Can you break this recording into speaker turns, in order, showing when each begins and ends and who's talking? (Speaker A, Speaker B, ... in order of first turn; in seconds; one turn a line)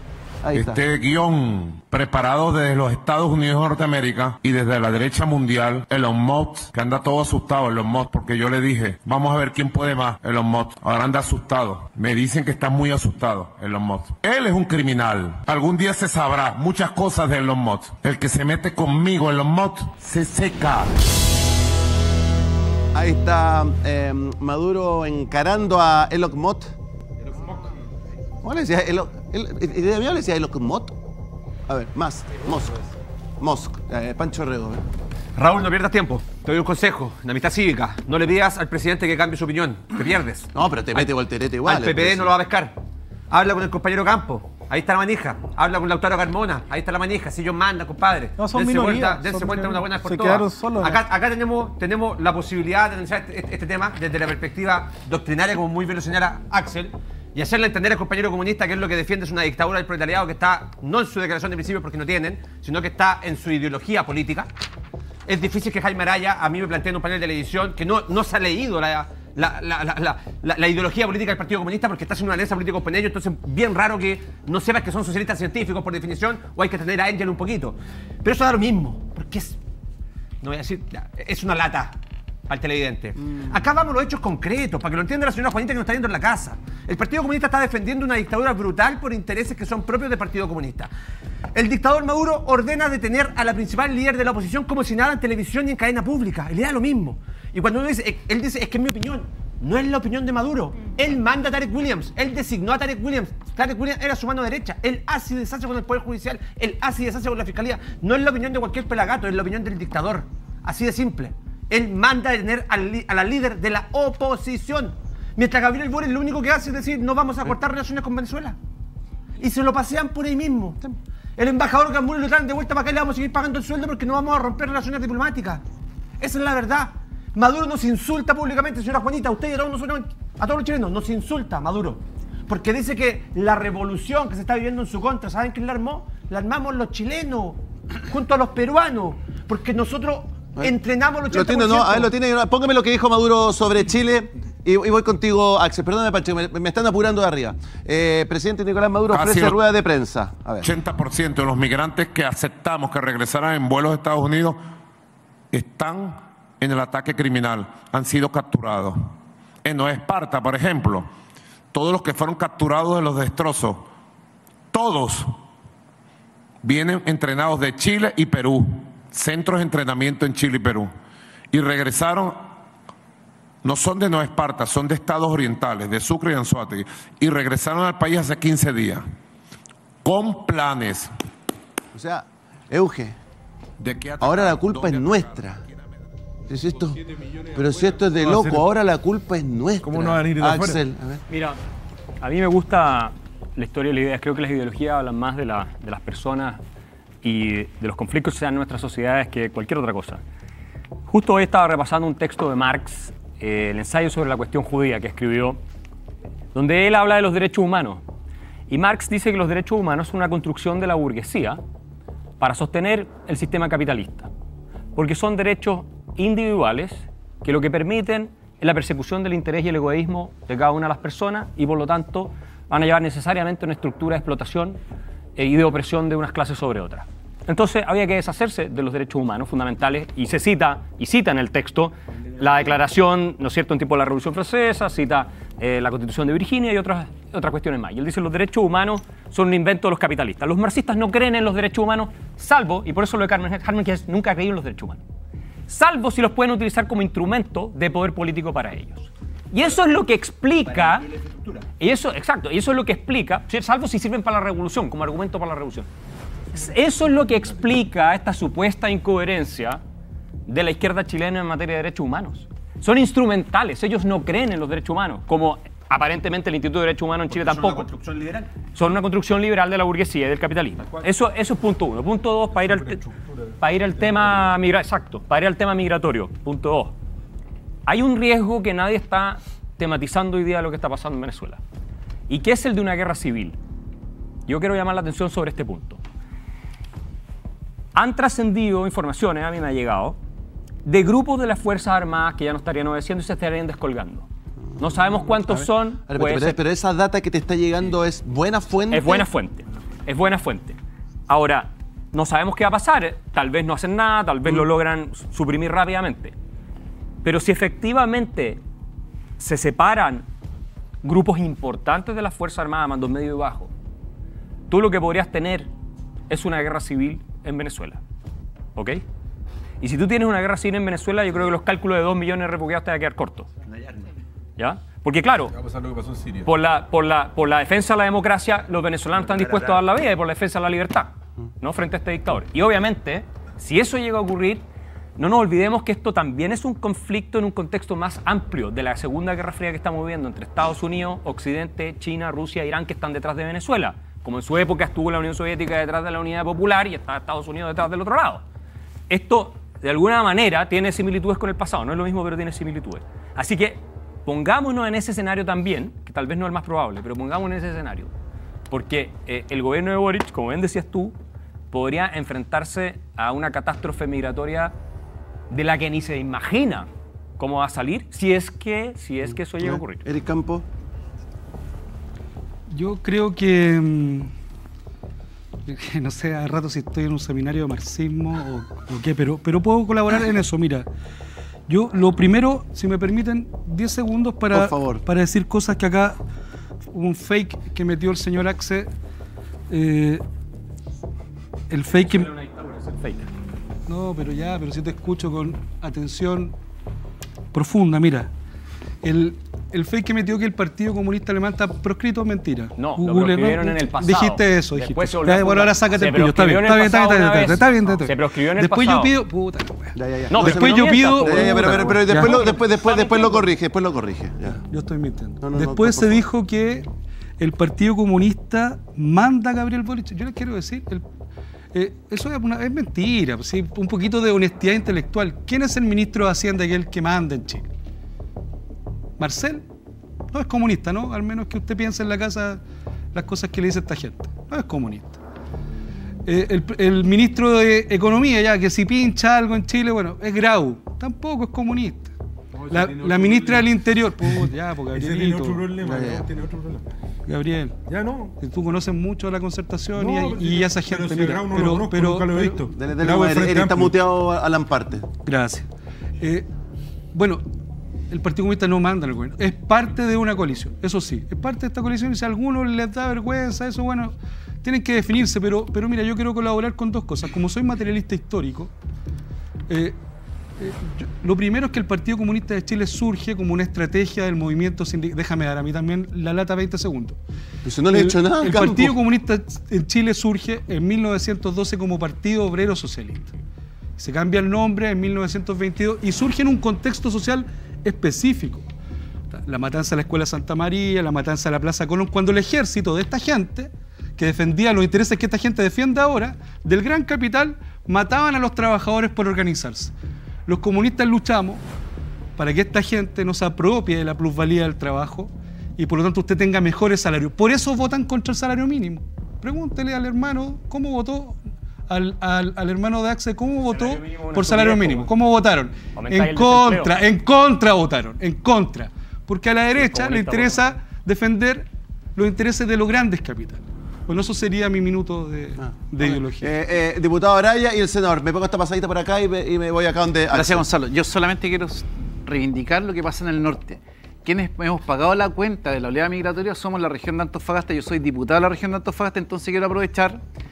Speaker A: 0.4-0.8
Speaker B: 0.5-20.9
Speaker A: 22.9-26.7
Speaker A: 28.4-30.9
Speaker A: 31.7-32.8
Speaker A: 33.4-34.8
Speaker C: 35.4-41.1
Speaker A: 40.5-42.3
Speaker C: 41.6-42.8
Speaker C: 43.3-64.5
Speaker C: 65.3-79.6
Speaker C: 80.4-82.0
Speaker C: 82.5-90.9
Speaker C: 91.5-118.6
Speaker C: 119.4-125.6
Speaker C: 126.2-142.1
Speaker A: 141.3-150.6
Speaker B: 149.1-149.6
Speaker B: 150.6-154.6
Speaker B: 155.5-159.1
Speaker B: 159.6-161.1
Speaker B: 161.7-163.8
Speaker B: 164.7-165.3
Speaker B: 166.6-170.9
Speaker B: 171.5-172.4
Speaker B: 173.6-179.0
Speaker B: 180.0-181.1
Speaker A: 181.9-183.2
Speaker B: 183.8-185.6
Speaker A: 184.2-185.6
Speaker D: 186.5-188.7
Speaker A: 186.5-187.0
Speaker A: 187.5-191.2
Speaker D: 189.8-190.8
Speaker E: 191.3-191.6
Speaker E: 192.2-196.6
Speaker E: 197.2-200.2
Speaker E: 201.1-205.6
Speaker E: 206.5-208.0
Speaker E: 208.7-211.6
Speaker E: 212.4-214.3
Speaker E: 214.9-224.8
Speaker E: 225.4-245.0
Speaker E: 245.7-251.1
Speaker C: 250.7-251.7
Speaker E: 251.8-255.9
Speaker E: 256.5-259.8
Speaker E: 260.5-267.9
Speaker C: 267.3-268.5
Speaker E: 268.7-273.0
Speaker D: 272.7-273.4
Speaker E: 273.6-276.9
Speaker D: 274.1-274.4
Speaker E: 277.9-281.6
Speaker E: 282.3-283.6
Speaker E: 284.5-286.0
Speaker E: 287.9-290.2
Speaker E: 290.8-294.3
Speaker E: 294.8-296.6
Speaker A: 295.4-299.3
Speaker E: 298.9-300.8
Speaker E: 301.3-306.3
Speaker E: 307.2-308.6
Speaker E: 309.4-310.3
Speaker E: 311.0-313.7
Speaker E: 314.7-315.7
Speaker E: 316.3-318.0
Speaker E: 318.8-319.0
Speaker E: 319.8-323.5
Speaker E: 324.6-325.6
Speaker D: 325.6-326.4
Speaker E: 326.4-334.6
Speaker C: 329.2-329.8
Speaker E: 335.2-348.4
Speaker E: 349.1-358.1
Speaker E: 358.7-361.2
Speaker E: 361.7-364.8
Speaker E: 365.5-366.9
Speaker E: 367.4-370.0
Speaker A: 369.2-370.6
Speaker F: 372.7-374.3
Speaker F: 375.7-380.9
Speaker F: 381.7-386.2
Speaker A: 384.5-385.0
Speaker F: 386.9-388.9
Speaker F: 389.7-390.2
Speaker F: 391.7-392.3
Speaker E: 392.0-393.3
Speaker F: 393.9-396.5
Speaker F: 397.5-398.3
Speaker F: 399.0-412.6
Speaker E: 402.8-409.1
Speaker A: 410.0-414.6
Speaker E: 410.3-413.5
Speaker F: 414.7-416.9
Speaker A: 415.4-416.2
Speaker F: 417.4-421.0
Speaker F: 421.7-427.7
Speaker F: 429.2-429.6
Speaker F: 430.3-432.6
Speaker F: 433.1-435.2
Speaker F: 436.3-442.1
Speaker D: 442.6-443.7
Speaker F: 442.7-445.7
Speaker D: 444.2-446.9
Speaker A: 445.8-446.3
Speaker F: 447.3-447.8
Speaker D: 447.9-448.4
Speaker F: 448.4-452.6
Speaker D: 450.0-454.0
Speaker A: 452.7-455.1
Speaker F: 455.2-455.7
Speaker F: 456.2-456.5
Speaker F: 457.1-457.4
Speaker F: 458.1-468.7
Speaker F: 469.7-470.0
Speaker F: 470.6-477.2
Speaker A: 477.6-479.0
Speaker F: 477.9-483.3
Speaker F: 484.0-488.6
Speaker F: 489.3-499.9
Speaker F: 500.5-501.6
Speaker F: 502.4-511.4
Speaker F: 511.9-526.5
Speaker E: 513.7-515.1
Speaker E: 516.0-517.0
Speaker E: 519.7-520.8
Speaker A: 525.6-530.6
Speaker G: 530.4-540.2